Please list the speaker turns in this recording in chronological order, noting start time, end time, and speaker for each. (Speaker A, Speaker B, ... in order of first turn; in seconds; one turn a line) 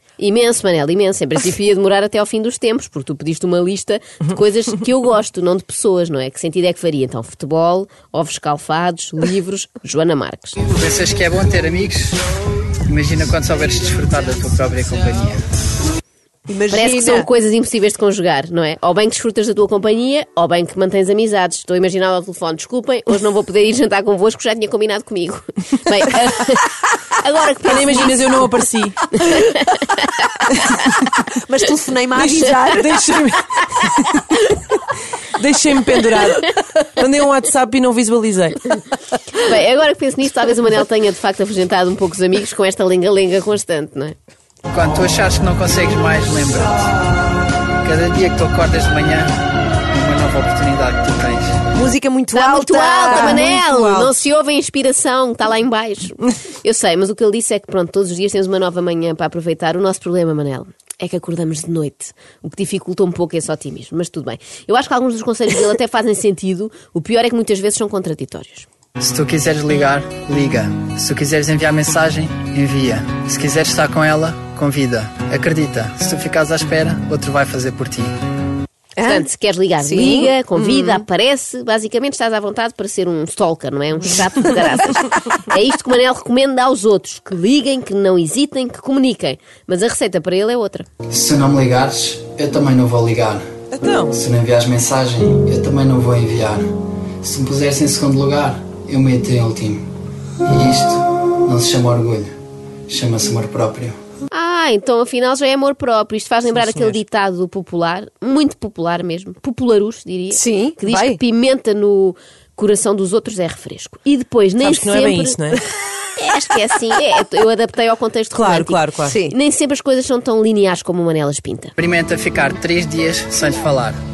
Speaker A: 0.2-10.6
Speaker B: 10.6-12.2
Speaker B: 12.8-15.4
Speaker C: 16.5-17.3
Speaker A: 16.7-28.3
Speaker D: 27.6-29.2
Speaker A: 29.2-30.1
Speaker D: 30.6-30.8
Speaker C: 31.3-32.9
Speaker D: 32.1-34.5
Speaker D: 35.4-38.6
Speaker A: 39.4-44.1
Speaker B: 44.7-47.0
Speaker B: 47.8-49.4
Speaker B: 49.9-51.6
Speaker C: 51.7-53.5
Speaker A: 52.3-68.7
Speaker D: 53.2-54.1
Speaker B: 69.0-78.1
Speaker C: 79.0-79.2
Speaker A: 79.0-90.9
Speaker C: 79.8-81.0
Speaker B: 91.1-93.4
Speaker D: 93.7-94.2
Speaker B: 94.1-96.7
Speaker B: 97.2-99.9
Speaker B: 100.4-102.3
Speaker B: 102.9-104.0
Speaker A: 104.3-115.4
Speaker C: 110.3-111.2
Speaker D: 114.6-115.6
Speaker A: 116.2-121.7
Speaker D: 118.3-119.2
Speaker C: 119.1-119.3
Speaker B: 121.8-124.0